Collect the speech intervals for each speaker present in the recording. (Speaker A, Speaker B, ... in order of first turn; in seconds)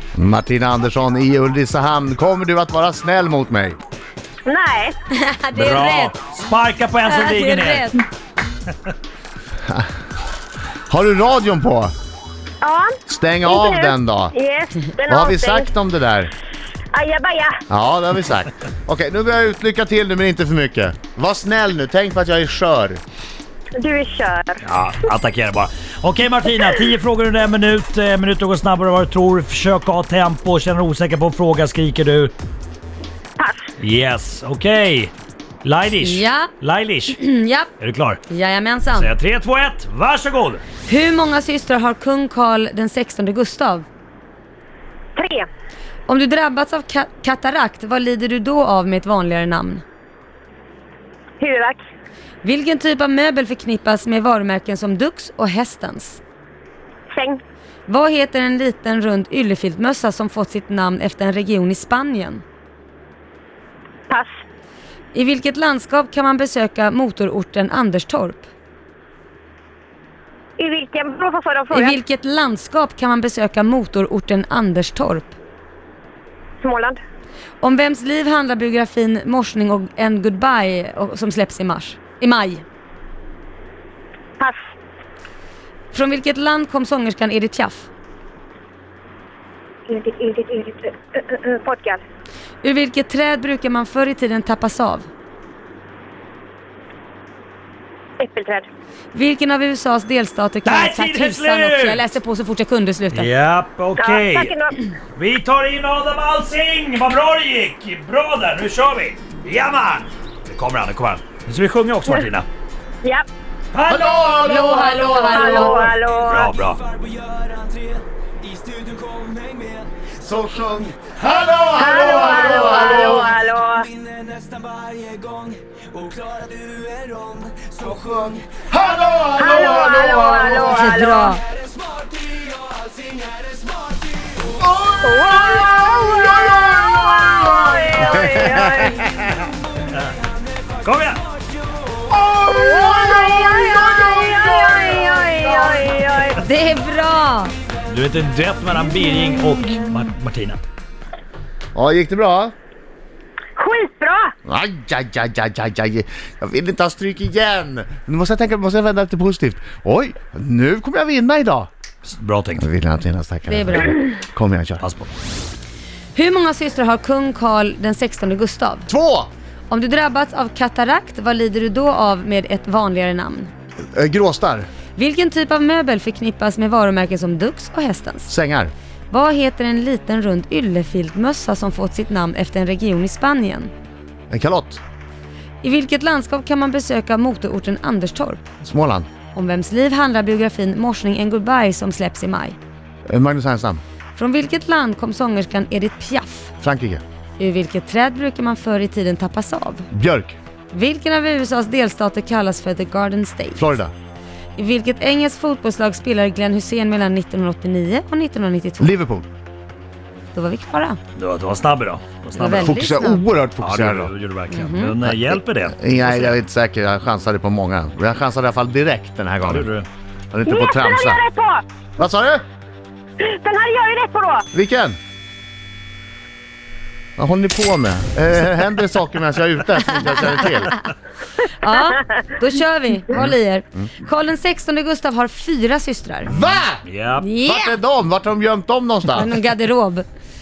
Speaker A: 0.1-3.8, 10.9-11.9, 13.1-14.3, 15.1-16.3, 17.7-23.0, 113.9-115.4, 120.2-123.3, 127.7-130.8, 134.6-139.2, 142.1-145.8, 151.8-152.6, 154.4-161.7, 162.6-164.8, 168.9-169.3, 173.9-174.7, 178.3-178.7, 184.3-184.8, 188.6-189.1, 193.1-193.8, 196.6-197.0, 199.9-200.4, 203.6-203.9, 208.8-209.3, 212.4-214.1, 215.0-219.7, 220.3-221.2, 222.0-222.4, 224.5-225.0, 227.2-230.7, 236.3-236.8, 237.4-239.4
Speaker B: 4.5-5.0, 12.6-15.7, 16.9-17.6, 23.8-24.6, 33.4-33.7, 45.2-45.5, 51.4-51.8, 57.1-57.4, 70.6-72.0, 76.6-77.0, 89.9-92.0, 98.2-98.7, 104.0-104.8, 115.3-116.5, 121.8-123.9, 129.4-131.4, 135.0-139.1, 142.5-146.4, 153.6-154.3, 220.5-221.6, 223.2-224.4
Speaker C: 5.1-6.1, 7.0-8.0, 36.0-36.5, 37.1-37.7, 38.3-39.1, 40.9-43.9, 46.1-49.8, 52.4-56.2, 57.9-62.4, 65.1-68.5, 71.7-75.3, 77.6-82.6, 85.9-87.9, 92.6-95.1, 99.1-103.3, 114.4-115.9, 130.5-131.4, 146.3-147.6, 163.5-164.1, 166.2-168.9, 169.7-173.5, 175.0-178.3, 179.1-183.7, 185.6-188.4, 189.3-192.6, 194.2-196.5, 197.4-199.9, 200.7-203.8, 204.6-208.9, 210.3-211.0, 212.4-213.2, 214.5-215.0, 229.9-230.8, 231.6-236.3, 237.2-237.8, 239.1-240.1
Speaker D: 5.5-8.0, 24.6-32.3, 33.8-35.1, 35.6-37.2, 37.8-38.2, 38.9-40.6, 100.7-102.0, 103.1-104.5, 105.2-112.5, 113.7-114.9, 115.6-116.8, 140.8-141.2, 147.9-150.6, 162.1-162.7, 164.8-165.1, 211.2-212.8, 213.6-216.4, 219.4-219.9, 236.8-237.3